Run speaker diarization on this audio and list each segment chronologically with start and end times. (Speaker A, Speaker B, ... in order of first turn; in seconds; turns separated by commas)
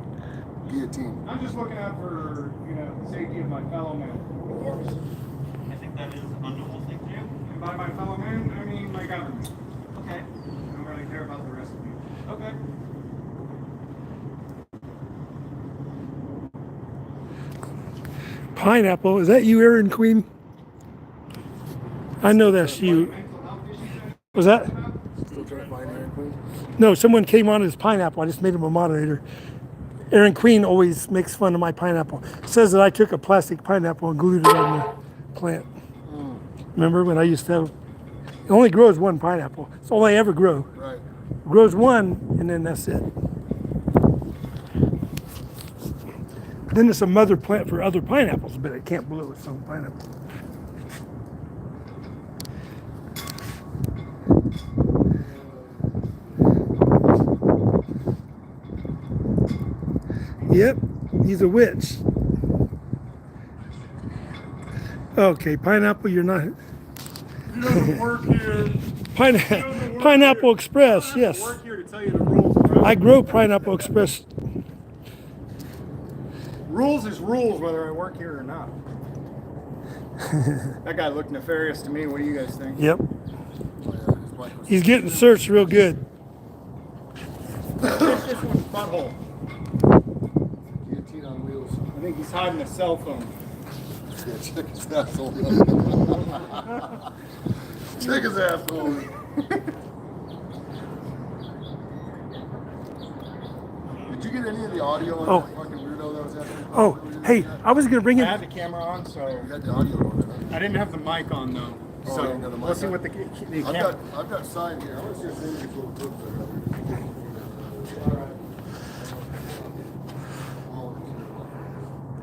Speaker A: 0.6-1.2, Speaker B: 1.2-5.0, Speaker C: 5.7-7.3, Speaker B: 7.4-9.5, Speaker C: 9.9-10.3, Speaker B: 10.7-12.0, Speaker C: 12.2-12.6, Speaker D: 18.6-20.3, Speaker D: 22.2-23.1, Speaker B: 22.3-25.0, Speaker D: 24.4-24.7, Speaker A: 25.3-26.4, Speaker B: 25.6-26.1, Speaker D: 26.8-29.2, Speaker D: 30.1-35.7, Speaker A: 36.0-36.4, Speaker D: 36.8-37.7, Speaker D: 38.5-40.7, Speaker A: 40.7-41.0, Speaker D: 41.5-43.1, Speaker D: 46.7-50.0, Speaker D: 61.2-62.0, Speaker D: 65.2-66.5, Speaker B: 67.5-73.9, Speaker D: 69.2-71.5, Speaker D: 72.8-74.3, Speaker B: 76.7-78.8, Speaker B: 80.8-82.9, Speaker D: 82.8-83.0, Speaker A: 83.8-85.7, Speaker D: 84.7-86.0, Speaker B: 87.8-89.2, Speaker A: 90.6-91.9, Speaker B: 91.9-93.3, Speaker A: 94.2-96.9, Speaker A: 97.9-99.1, Speaker A: 104.1-107.7, Speaker D: 106.7-108.3, Speaker B: 108.1-109.5, Speaker A: 109.3-110.7, Speaker B: 110.5-114.0, Speaker A: 112.0-113.0, Speaker A: 113.6-118.3, Speaker B: 117.9-118.4, Speaker A: 118.9-119.9, Speaker A: 120.6-121.9